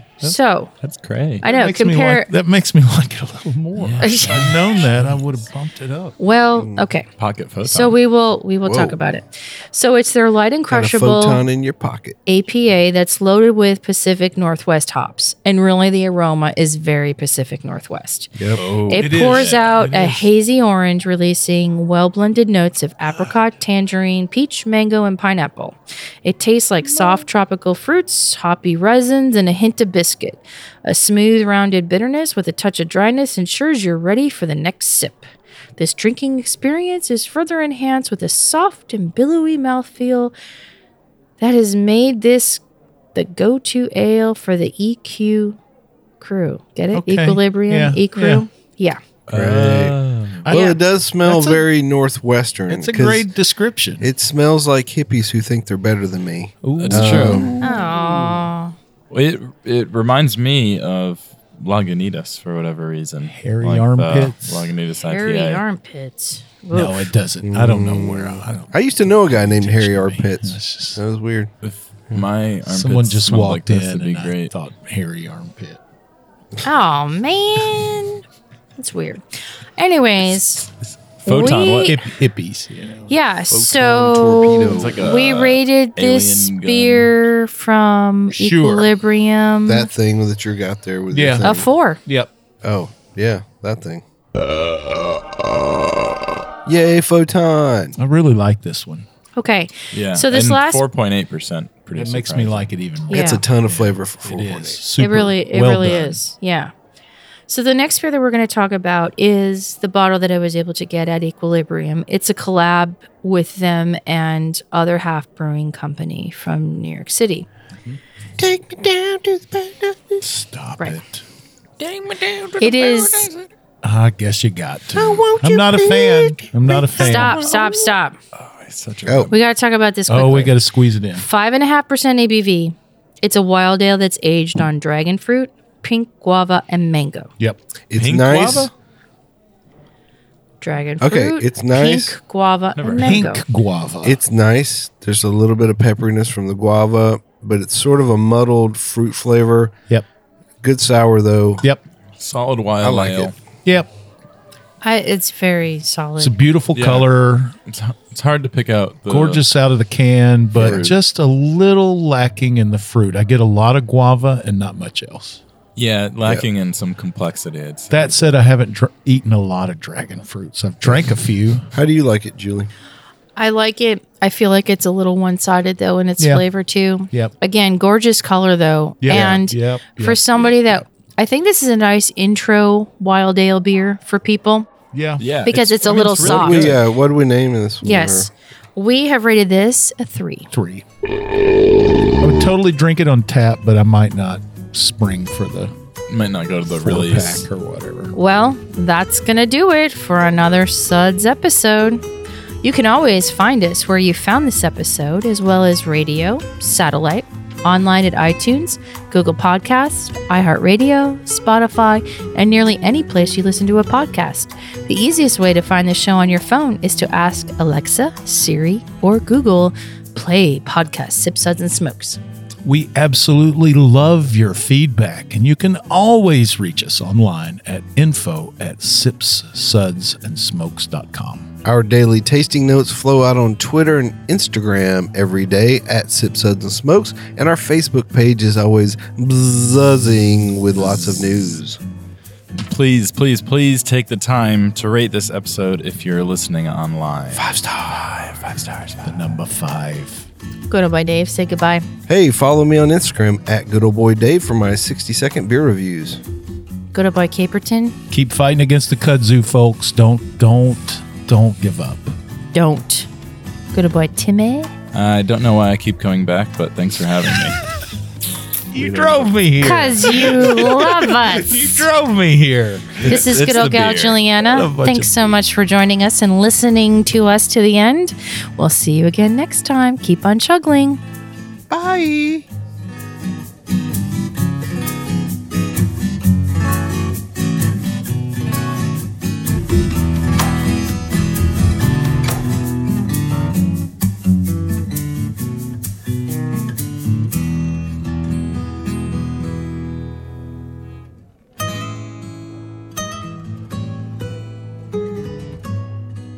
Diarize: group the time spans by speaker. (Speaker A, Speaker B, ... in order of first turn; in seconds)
Speaker A: 0.2-0.7, 1.4-2.3, 4.0-4.8, 6.2-7.1, 7.7-11.4, 12.3-18.3, 18.9-40.3, 41.4-42.6, 43.1-45.6, 46.2-49.0, 50.5-50.8, 57.6-58.8, 65.1-67.1, 76.6-78.2, 78.8-79.2, 79.8-80.7, 81.2-82.1, 83.1-89.9, 91.4-92.0, 99.4-100.8, 103.1-103.4, 105.0-106.7, 107.5-117.5, 122.6-123.3, 127.0-128.2, 129.3-130.6, 131.1-137.3, 140.6-143.4, 154.8-156.4, 173.4-184.7, 185.4-186.7, 187.8-190.5, 198.1-202.0, 202.6-222.2, 250.7-251.9, 256.9-258.0, 262.5-263.1, 263.7-264.7, 269.6-271.9, 273.0-281.0
Speaker B: 0.8-1.4, 3.8-4.4, 7.2-8.0, 18.6-19.8, 49.3-50.5, 56.8-57.6, 59.1-65.6, 71.6-74.5, 81.2-82.0, 84.7-87.1, 99.9-102.7, 121.8-123.5, 127.0-129.3, 137.9-138.7, 142.8-143.2, 152.2-153.3, 156.8-157.1, 157.7-159.4, 160.6-160.9, 165.8-168.3, 185.2-186.8, 196.1-197.5, 240.8-241.2, 242.6-249.4, 264.9-267.6, 268.8-269.3, 273.0-274.2
Speaker C: 1.4-6.2, 18.9-20.3, 46.9-48.5, 50.4-51.7, 52.7-54.1, 56.6-58.4, 63.2-64.7, 66.7-71.0, 72.7-75.8, 81.4-83.2, 88.3-88.9, 91.1-92.3, 94.7-95.1, 98.0-99.1, 102.0-106.2, 120.2-121.2, 123.8-127.5, 130.1-131.2, 143.0-144.2, 156.2-157.6, 159.1-165.4, 167.9-171.7, 176.2-176.5, 179.0-180.8, 184.9-186.7, 190.5-190.8, 192.2-195.7, 196.7-198.2, 222.7-231.5, 241.0-241.5, 249.0-250.3, 258.1-262.1, 268.7-273.2, 274.4-275.3, 281.7-282.4
Speaker D: 6.5-6.8, 8.6-9.0, 10.7-12.2, 18.4-18.6, 49.3-53.3, 54.0-57.6, 67.4-71.5, 83.5-85.1, 89.7-91.7, 92.6-94.0, 96.7-98.0, 103.1-104.8, 118.4-120.2, 125.0-127.0, 129.1-129.3, 137.9-138.7, 141.0-142.2, 144.0-149.7, 150.6-151.7, 152.8-153.3, 160.6-160.8, 171.7-172.7, 179.1-179.4, 186.3-188.3, 231.6-241.8, 247.3-248.4, 252.1-256.2